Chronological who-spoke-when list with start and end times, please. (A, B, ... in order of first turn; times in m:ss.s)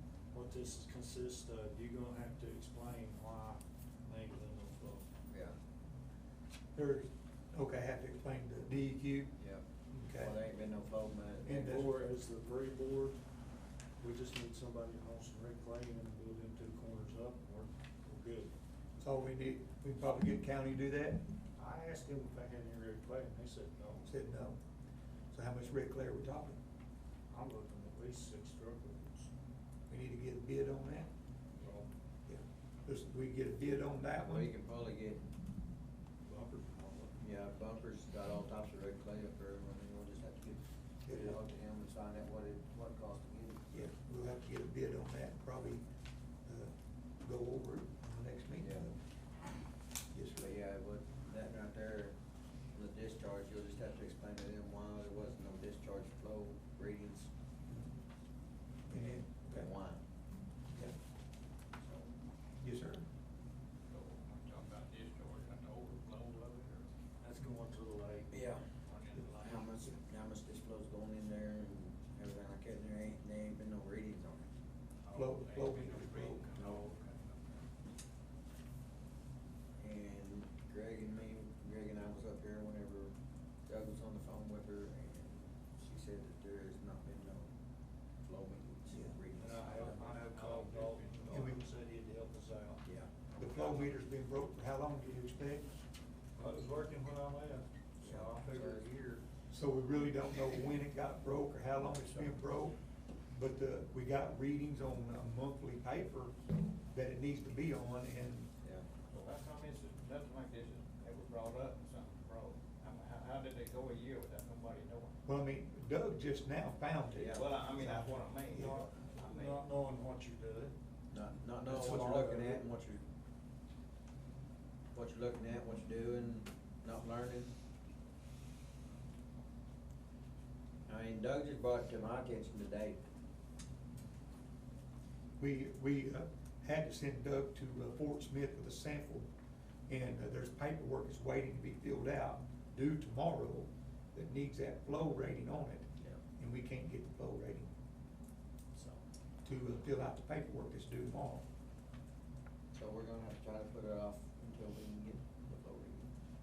0:00.3-0:05.0 A
0:05.3-0:05.6 B
0:06.8-0:09.4 C
0:09.4-0:11.7 B
0:09.9-0:10.4 C
0:11.4-0:12.0 C
0:11.5-0:13.2 A
0:14.0-0:18.6 A
0:19.0-0:21.2 C
0:21.6-0:24.1 A
0:24.0-0:24.6 C
0:25.3-0:26.6 C
0:27.3-0:29.3 A
0:29.9-0:31.1 C
0:31.6-0:31.9 A
0:32.3-0:34.5 C
0:34.2-0:35.2 B
0:36.2-0:37.2 A
0:37.2-0:43.7 B
0:41.1-0:41.4 C
0:43.7-0:45.8 C
0:46.5-0:49.0 C
0:48.6-0:48.9 B
0:50.1-0:50.5 C
0:50.4-0:52.2 B
0:52.7-0:57.3 B
0:57.7-0:58.0 C
0:58.9-0:59.7 C
0:59.5-1:00.0 B
1:02.6-1:03.1 C
1:03.9-1:06.9 D
1:07.2-1:08.3 A
1:08.3-1:08.6 B
1:08.7-1:09.9 D
1:09.3-1:14.5 B
1:15.1-1:17.6 D
1:15.1-1:16.5 C
1:16.6-1:16.9 B
1:19.8-1:23.1 B
1:23.7-1:27.5 B
1:28.2-1:30.0 B
1:28.9-1:29.2 C
1:29.4-1:32.8 A
1:29.8-1:31.4 D
1:31.3-1:31.6 C
1:32.8-1:33.3 B
1:33.4-1:35.7 C
1:33.4-1:33.9 A
1:36.4-1:39.2 A
1:38.0-1:38.9 B
1:39.5-1:42.8 C
1:43.3-1:46.4 C
1:46.9-1:48.5 C
1:48.6-1:48.9 B
1:49.0-1:55.2 D
1:55.3-1:59.3 C
1:57.1-1:57.5 B
1:57.3-1:59.6 D
1:59.2-2:00.7 A
2:01.1-2:03.0 B
2:01.6-2:02.6 A
2:01.7-2:02.2 C
2:04.9-2:07.5 B
2:10.9-2:13.0 B
2:15.4-2:19.3 C
2:19.9-2:27.7 C
2:28.8-2:29.0 A
2:29.4-2:31.4 C
2:32.7-2:36.1 B